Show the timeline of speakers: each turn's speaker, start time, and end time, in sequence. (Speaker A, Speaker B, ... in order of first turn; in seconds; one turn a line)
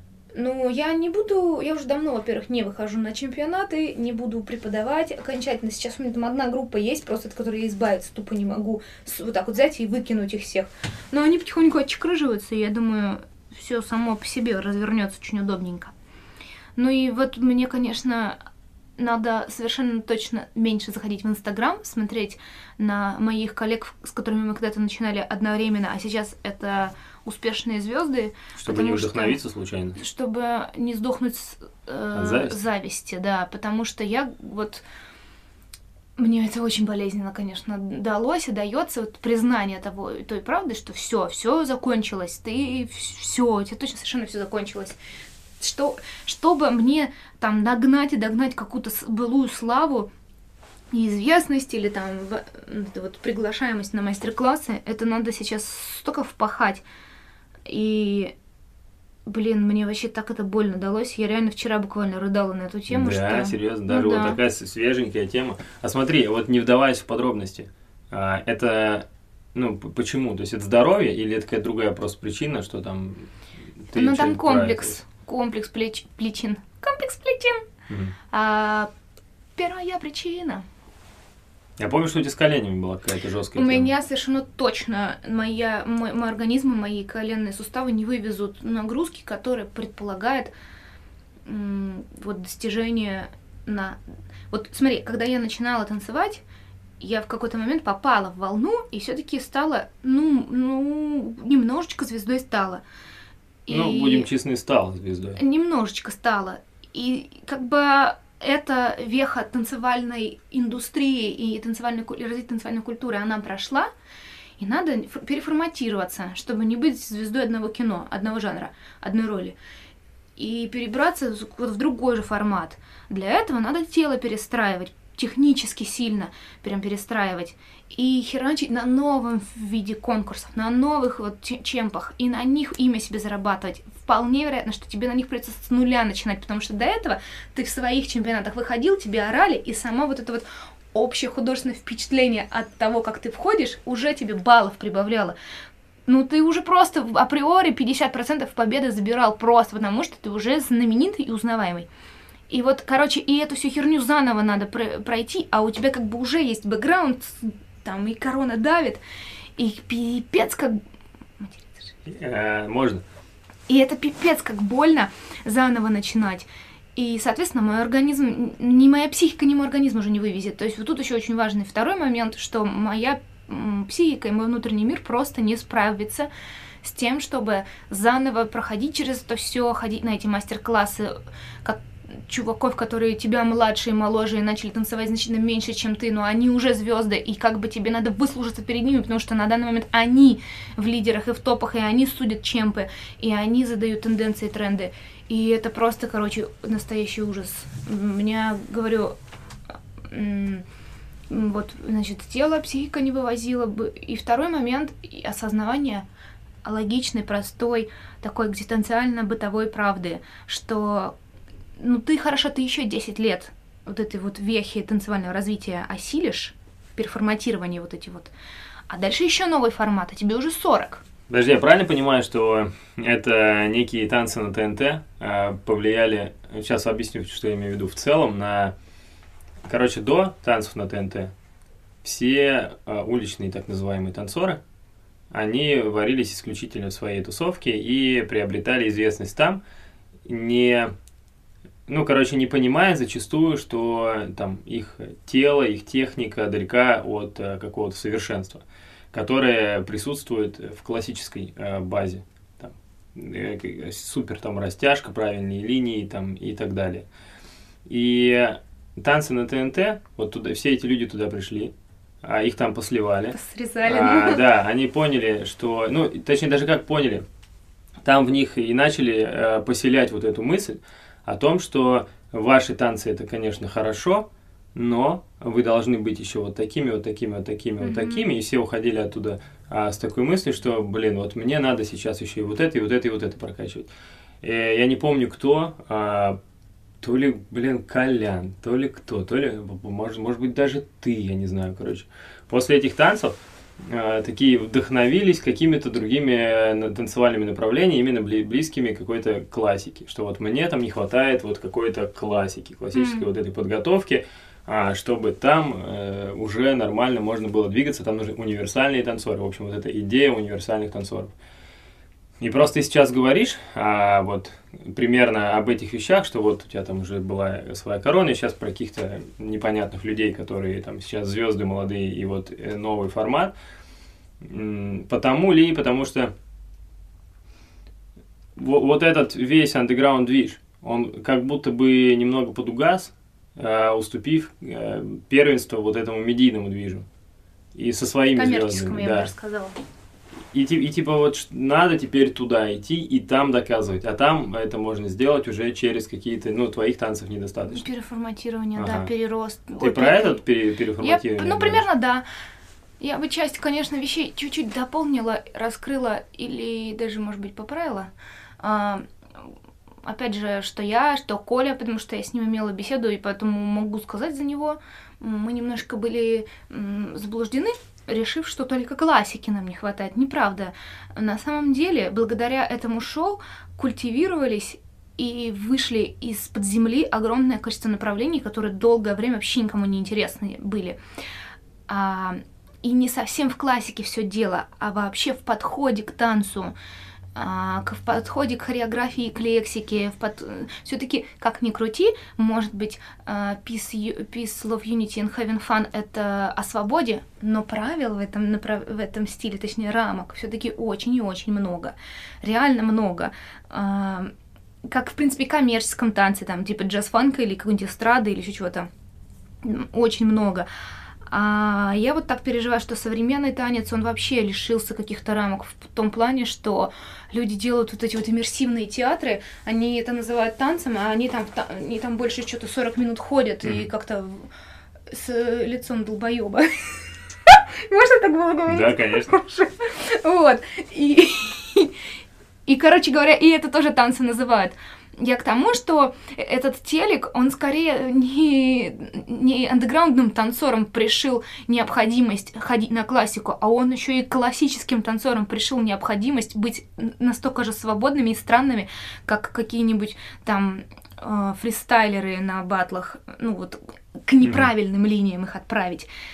Speaker A: 0.3-15.9
Speaker A: 16.8-18.4
Speaker A: 19.0-29.4
Speaker B: 28.6-30.0
Speaker A: 30.0-34.8
Speaker B: 32.1-32.6
Speaker A: 36.2-45.0
Speaker A: 45.6-50.1
Speaker A: 50.9-56.8
Speaker A: 57.7-58.3
Speaker A: 59.3-64.4
Speaker B: 62.9-73.3
Speaker B: 73.8-75.0
Speaker A: 73.9-77.7
Speaker A: 78.3-78.9
Speaker A: 79.6-80.7
Speaker B: 81.8-83.9
Speaker A: 83.6-90.5
Speaker A: 91.5-96.4
Speaker A: 97.0-102.8
Speaker A: 103.7-104.3
Speaker B: 103.7-105.4
Speaker A: 105.4-113.9
Speaker A: 114.6-119.6
Speaker A: 120.4-145.3
Speaker A: 146.1-151.9
Speaker A: 152.5-159.0
Speaker A: 159.6-160.8
Speaker A: 161.4-161.8
Speaker B: 162.1-163.0
Speaker A: 163.7-176.3
Speaker A: 176.8-199.2
Speaker A: 200.1-200.6
Speaker A: 201.3-206.1
Speaker A: 206.6-211.2
Speaker A: 211.8-218.3
Speaker A: 218.9-221.0
Speaker B: 221.3-228.8
Speaker B: 229.7-231.3
Speaker B: 232.0-234.6
Speaker B: 235.3-239.6
Speaker B: 240.3-240.9
Speaker B: 241.9-257.1
Speaker B: 257.9-261.7
Speaker B: 262.2-267.2
Speaker A: 263.3-264.4
Speaker B: 268.0-283.9
Speaker A: 277.8-278.3
Speaker B: 284.4-286.4
Speaker B: 287.0-311.3
Speaker A: 302.9-303.3
Speaker B: 312.4-323.5
Speaker B: 324.4-326.3
Speaker B: 328.6-337.1
Speaker B: 337.8-339.3
Speaker A: 338.4-339.8
Speaker B: 340.5-347.8
Speaker A: 347.7-350.4
Speaker B: 348.8-349.1
Speaker B: 349.8-351.8
Speaker A: 351.0-352.3
Speaker A: 353.0-359.1
Speaker A: 360.1-381.0
Speaker A: 381.9-386.7
Speaker A: 387.4-404.3
Speaker A: 404.8-408.9
Speaker A: 409.6-410.7
Speaker A: 411.3-424.5
Speaker A: 425.1-431.9
Speaker B: 428.7-429.3
Speaker A: 432.7-456.1